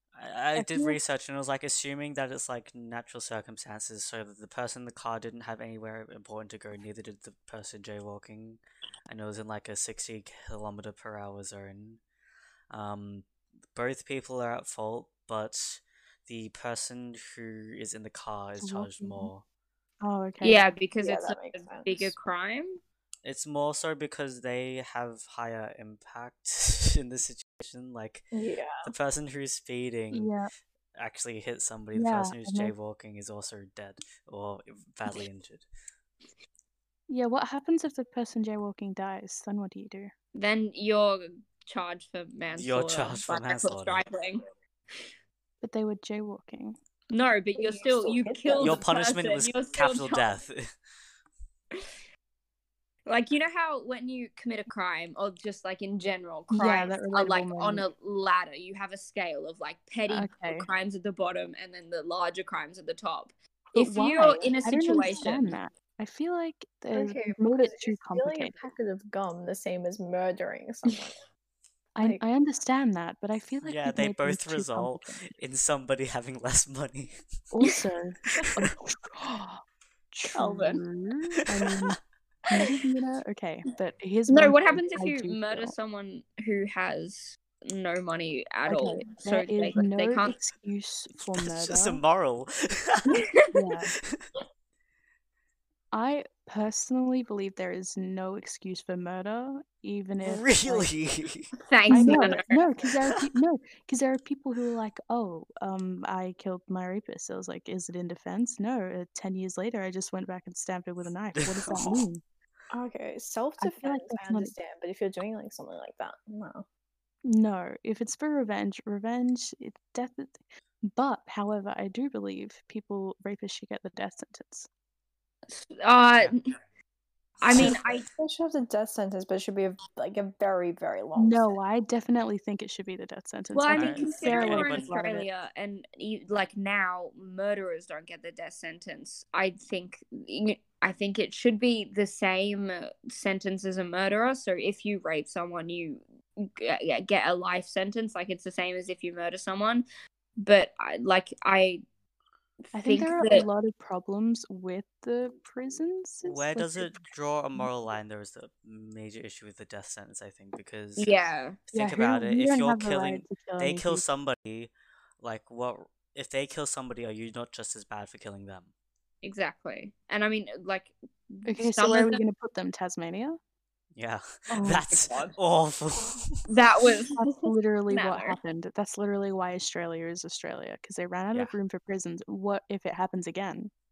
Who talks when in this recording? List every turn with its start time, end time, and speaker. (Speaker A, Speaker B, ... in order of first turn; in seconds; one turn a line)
Speaker A: 0.1-12.0
Speaker B: 0.6-1.0
Speaker A: 12.7-19.4
Speaker B: 18.6-19.3
Speaker B: 20.0-20.6
Speaker C: 20.4-22.8
Speaker D: 21.0-22.1
Speaker A: 23.2-28.2
Speaker D: 28.3-28.9
Speaker A: 28.8-30.3
Speaker B: 30.1-30.5
Speaker A: 30.9-35.7
Speaker B: 31.9-32.7
Speaker B: 37.1-40.1
Speaker C: 40.3-44.4
Speaker A: 42.6-44.0
Speaker B: 45.6-46.8
Speaker C: 47.1-50.4
Speaker D: 47.6-48.9
Speaker A: 48.6-50.7
Speaker C: 53.1-65.5
Speaker B: 56.5-57.8
Speaker B: 60.1-60.7
Speaker B: 63.7-68.6
Speaker D: 66.9-71.2
Speaker B: 72.0-75.3
Speaker A: 73.6-77.2
Speaker B: 77.5-82.0
Speaker C: 80.3-80.8
Speaker B: 82.5-85.8
Speaker C: 84.3-90.4
Speaker B: 88.7-92.0
Speaker A: 91.3-93.2
Speaker C: 93.2-93.5
Speaker B: 93.5-93.9
Speaker B: 95.9-100.9
Speaker A: 100.2-101.5
Speaker C: 101.7-102.7
Speaker B: 101.9-112.2
Speaker D: 102.0-102.3
Speaker A: 111.4-112.1
Speaker D: 112.7-116.7
Speaker B: 113.6-114.5
Speaker B: 117.2-124.7
Speaker C: 125.5-126.4
Speaker C: 127.4-128.1
Speaker D: 127.5-131.6
Speaker B: 131.2-135.3
Speaker C: 133.5-149.8
Speaker A: 133.7-134.9
Speaker C: 150.4-151.8
Speaker C: 152.7-153.5
Speaker B: 152.7-157.7
Speaker A: 156.2-161.2
Speaker C: 161.0-161.6
Speaker A: 161.7-168.7
Speaker B: 161.7-164.1
Speaker C: 169.2-172.2
Speaker B: 171.5-173.4
Speaker A: 173.9-176.4
Speaker B: 174.5-175.0
Speaker C: 176.5-177.2
Speaker B: 177.2-183.7
Speaker C: 177.9-178.4